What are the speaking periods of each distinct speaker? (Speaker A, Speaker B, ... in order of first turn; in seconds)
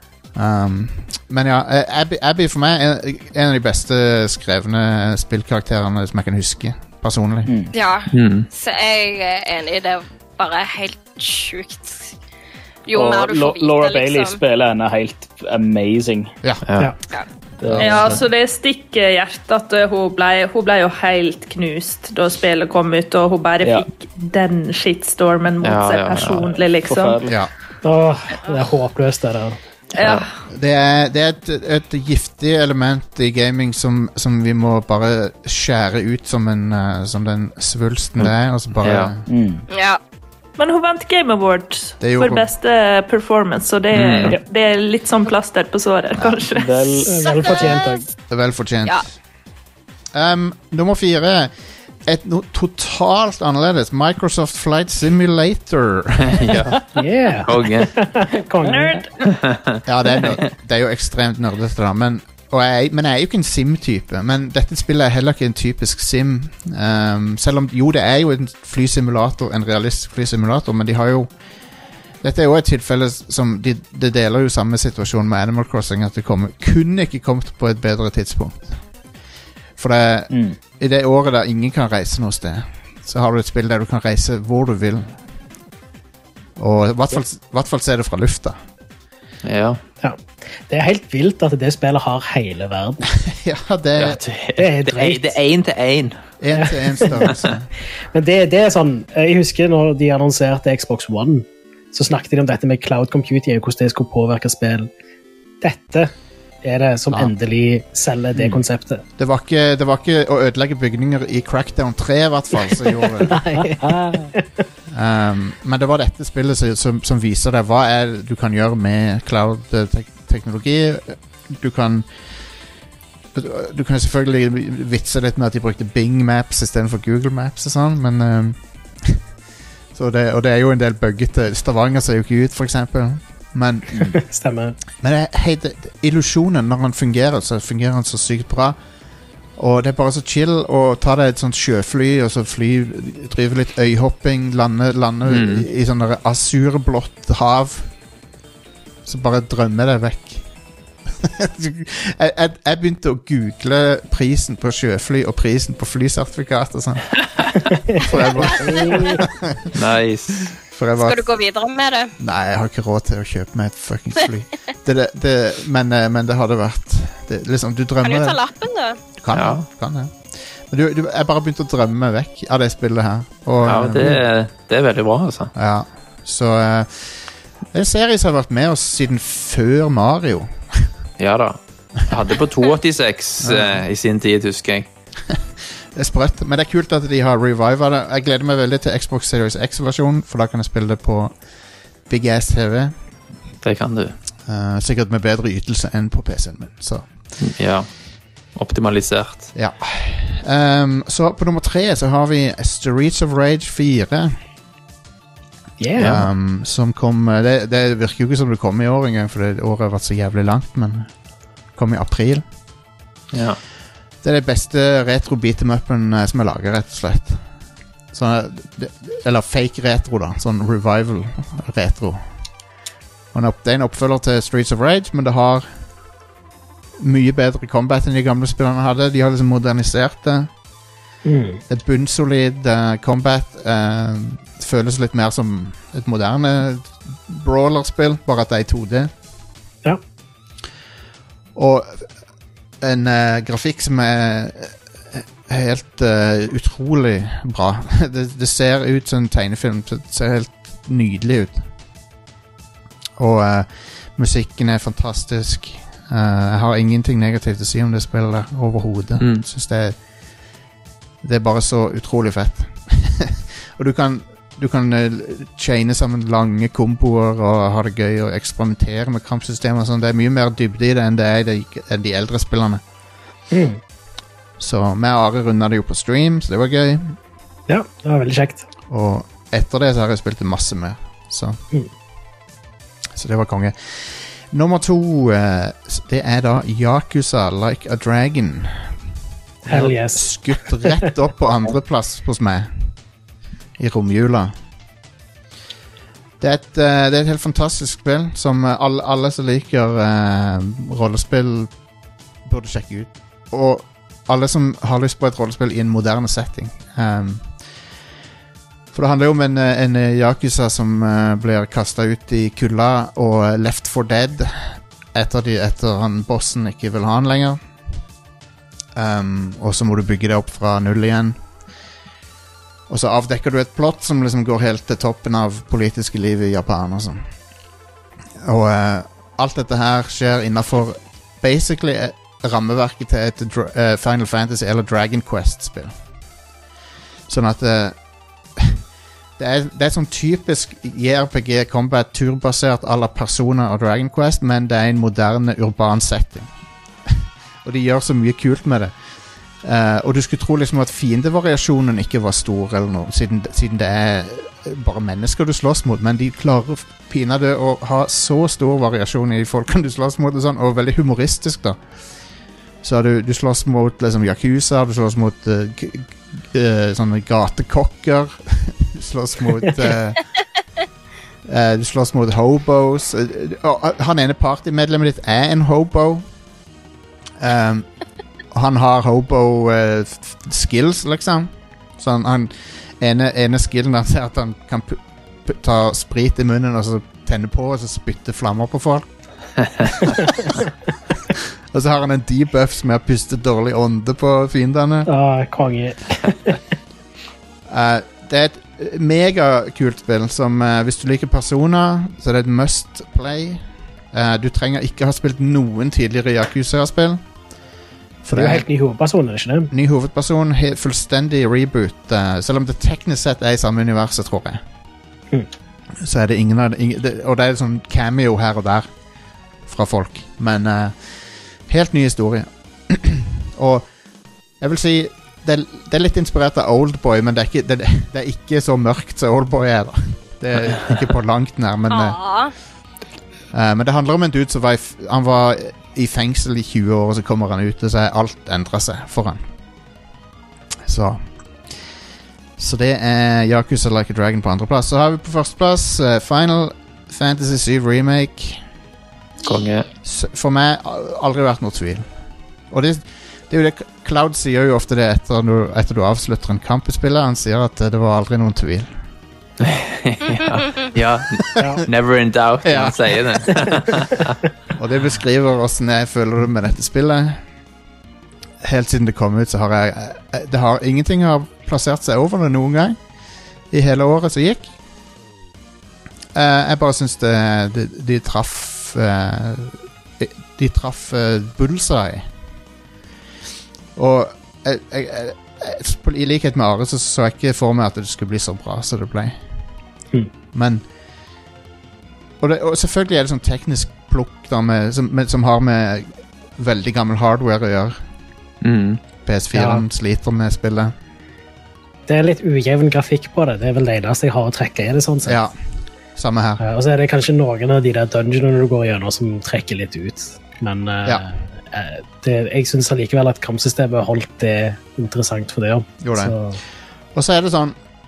Speaker A: 0.3-7.5, 16.4-18.2, 27.2-27.5, 30.5-39.3, 42.0-42.5, 46.2-46.4, 48.3-49.2, 50.1-56.8, 59.8-79.0, 79.8-85.3, 86.6-88.6, 93.3-94.2, 96.4-97.7, 109.2-113.5, 114.9-122.6, 123.3-129.2, 129.9-134.3, 135.0-138.9, 139.5-147.9, 149.0-150.5, 151.0-159.6, 160.7-161.3, 162.2-168.4, 169.0-174.1, 175.5-180.9, 183.4-183.8, 185.3-192.9, 194.4-197.2, 199.5-204.4, 206.0-212.5, 214.2-222.6, 223.3-225.9, 227.0-230.5, 231.7-239.1, 241.5-242.1, 242.8-251.7, 253.2-260.4, 261.2-272.8, 274.6-277.2, 278.9-281.6, 283.1-289.0, 289.6-293.1, 293.8-294.6, 296.4-301.8, 302.4-307.9, 308.9-317.8, 318.9-321.5, 322.9-327.5, 328.4-336.1, 337.3-338.8, 339.4-362.3, 362.8-370.3, 371.4-376.3, 377.4-390.5, 391.7-395.1, 397.7-407.4, 408.2-408.7, 409.7-414.6, 416.0-419.0, 419.6-424.0, 424.5-432.6, 433.5-439.4, 440.8-442.0, 442.6-448.7, 450.0-452.1, 452.7-459.0, 462.6-463.7, 464.7-467.4, 468.6-473.1, 473.6-474.8, 476.3-482.3, 483.9-489.5, 490.5-490.8, 492.4-498.1, 499.2-500.9, 505.2-505.5, 506.1-506.6, 516.0-517.8
Speaker B: 7.5-7.7, 12.9-16.3, 17.6-18.2, 23.6-23.9, 26.8-27.5, 39.2-39.6, 46.5-47.2, 80.3-80.6, 108.3-108.6
Speaker C: 7.7-12.1, 12.8-14.4, 30.0-30.4, 39.7-40.0, 47.4-48.0, 161.0-162.1, 168.0-169.0, 431.9-432.5
Speaker D: 8.1-8.5, 16.6-16.9, 25.6-26.5, 29.9-30.3, 38.2-39.1, 43.9-44.3, 56.4-56.8, 57.4-58.0, 89.4-89.8, 94.0-96.2, 145.2-145.6, 159.7-160.6, 169.3-169.7, 173.6-175.5, 181.2-184.9, 193.6-194.2, 197.4-197.9, 198.5-199.5, 213.3-213.6, 259.2-259.4, 449.4-449.9, 459.6-464.3, 498.6-499.0
Speaker E: 17.8-27.2, 40.6-47.1, 58.6-59.1
Speaker F: 27.8-29.6, 47.0-48.0, 56.9-59.0, 90.0-93.1, 94.6-95.3, 96.5-97.1, 98.1-104.9, 105.6-109.0, 113.3-114.4, 134.2-134.8, 158.4-159.1, 205.8-206.2, 231.2-231.6, 273.5-273.8, 277.7-278.7, 289.6-290.7, 395.1-396.6, 408.3-409.7, 499.5-499.8, 502.1-505.4, 506.6-516.6